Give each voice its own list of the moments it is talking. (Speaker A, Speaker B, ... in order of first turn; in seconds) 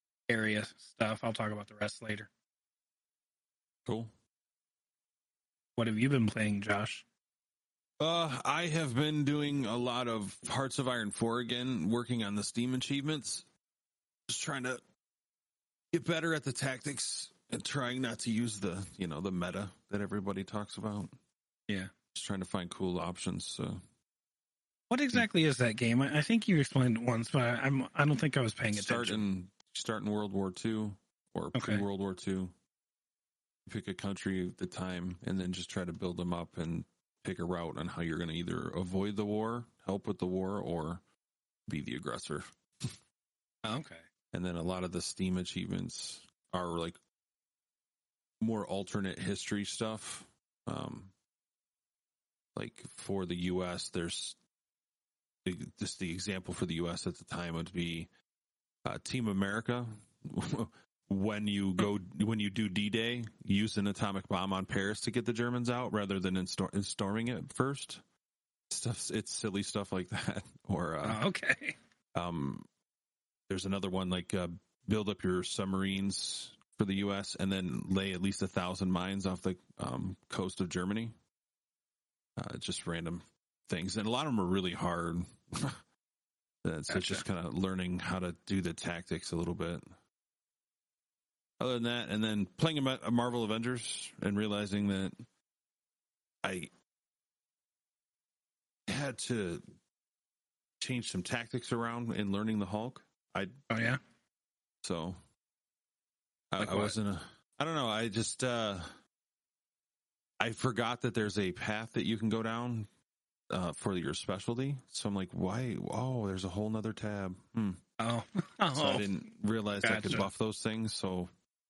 Speaker A: 0.3-2.3, 5.8-7.0, 24.9-29.2, 31.6-31.8, 43.6-44.0, 71.0-71.8, 86.9-87.2, 103.7-104.0, 106.6-107.0, 118.0-119.1, 119.8-120.3
Speaker B: 3.9-4.1, 8.0-13.5, 14.3-14.8, 15.9-21.1, 22.1-23.8, 28.7-32.5, 33.7-41.0, 41.7-42.9, 44.3-47.0, 48.4-51.1, 52.5-54.4, 55.5-58.1, 58.9-68.0, 68.7-71.2, 72.1-72.7, 73.5-81.2, 82.4-85.8, 86.6-89.9, 91.6-95.2, 96.4-96.7, 98.9-99.7, 100.8-103.6, 104.8-105.2, 106.5-108.9, 110.4-112.9, 113.5-117.8, 118.7-121.3